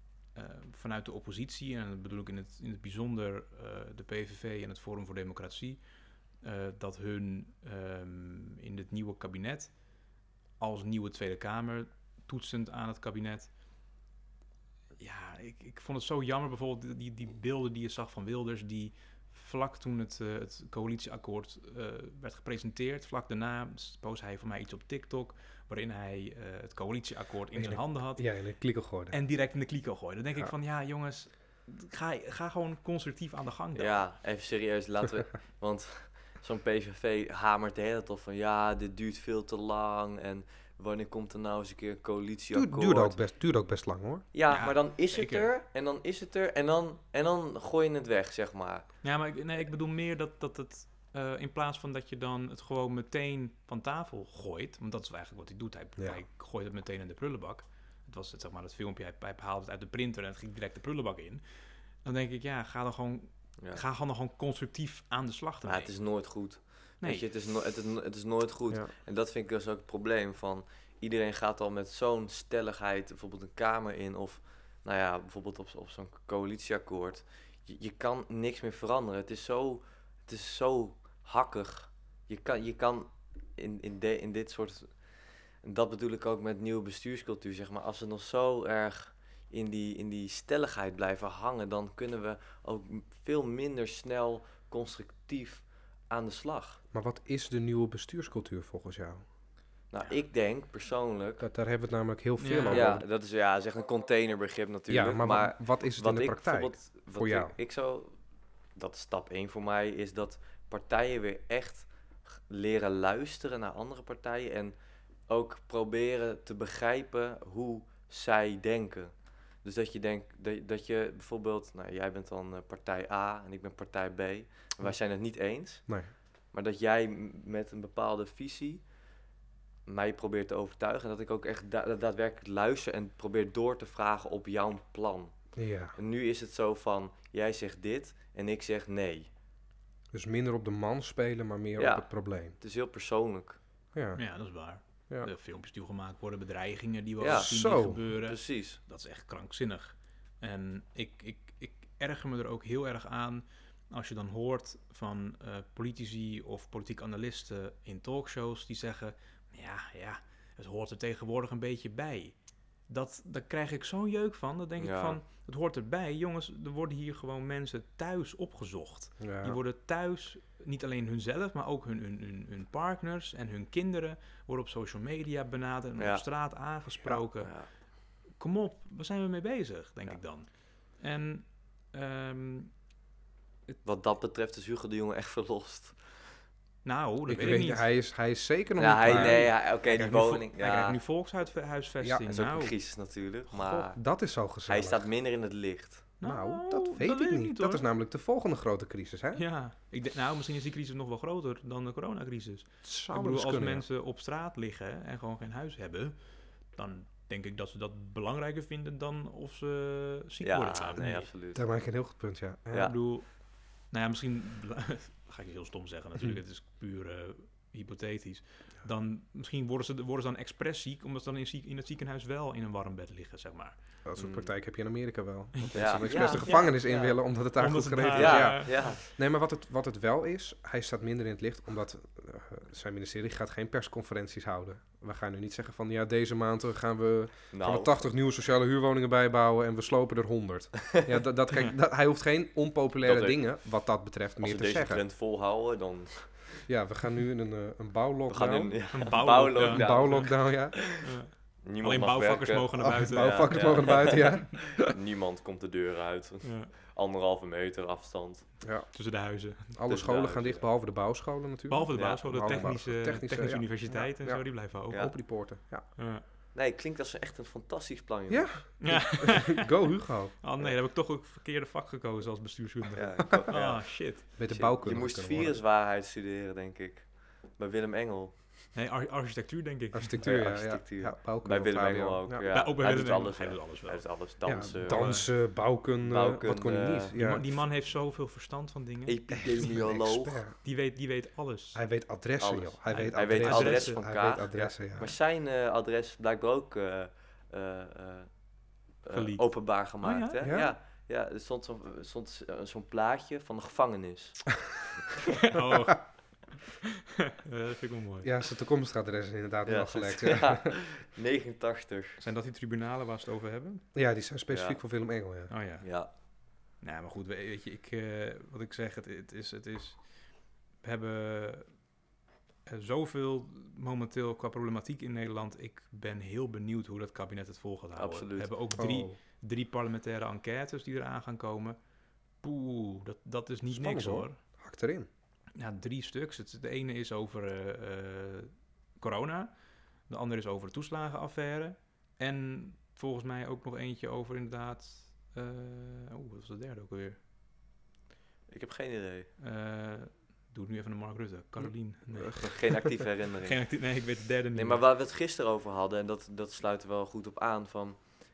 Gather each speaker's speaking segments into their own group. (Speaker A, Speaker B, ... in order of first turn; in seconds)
Speaker A: 0.3-5.8, 6.4-9.8, 10.6-13.5, 15.0-28.2, 29.1-34.0, 44.5-45.5, 49.0-61.4, 62.0-65.9, 102.4-102.9, 144.2-162.3, 162.9-177.6, 178.3-182.7, 186.8-187.9, 189.0-192.8, 196.2-197.8, 199.3-206.2, 206.7-211.3, 212.8-213.4, 213.9-223.8, 225.6-226.9, 227.5-229.0, 248.9-250.4, 250.9-254.0, 256.4-256.7, 258.9-259.8, 261.7-265.2, 266.0-266.2, 268.8-269.8, 270.4-274.2, 278.7-280.2, 282.5-284.1, 284.8-285.3, 287.2-289.7, 290.6-291.8, 292.9-294.0, 299.1-300.4, 305.4-308.3, 312.2-313.8, 315.5-315.9, 316.8-320.1, 320.8-321.7, 322.7-331.8, 332.4-334.4, 335.6-339.5, 340.1-347.2, 349.4-354.8
Speaker B: 27.5-29.2, 42.5-44.3, 96.9-99.2, 101.4-103.0, 104.9-107.5, 135.6-136.0, 140.1-142.6, 143.9-144.2, 147.2-148.0, 169.2-169.6, 187.3-189.5, 193.5-195.1, 196.2-199.4, 202.8-203.8, 211.6-212.9, 224.1-245.0, 246.7-250.9, 252.8-254.9, 258.6-258.9, 259.7-265.9, 268.3-270.4, 274.4-275.6, 279.9-282.5, 284.4-287.5, 289.3-290.6, 291.7-295.1, 300.4-300.7, 308.2-310.8, 313.9-315.5, 328.8-329.2, 333.7-335.1
Speaker C: 33.8-43.2, 44.3-48.9, 65.7-85.0, 85.6-96.8, 99.9-101.5, 102.7-108.2, 108.8-114.8, 115.3-125.9, 126.5-128.9, 129.9-135.4, 135.9-139.3, 141.8-143.6, 147.2-148.8, 164.8-165.2, 176.0-176.2, 177.4-177.7, 183.8-186.2, 188.8-191.0, 192.3-194.0, 194.7-196.1, 210.4-211.6, 224.2-224.5, 225.8-227.2, 228.1-229.0, 237.5-237.9, 243.0-243.6, 244.4-246.5, 248.3-251.0, 251.6-258.5, 259.9-260.7, 261.9-262.7, 266.5-268.6, 272.9-278.5, 280.2-285.3, 286.0-287.2, 289.1-290.4, 292.4-298.3, 299.0-304.5, 309.7-312.2, 314.5-314.8, 315.8-316.1, 328.0-328.5, 348.5-349.3, 352.4-353.6, 354.5-358.1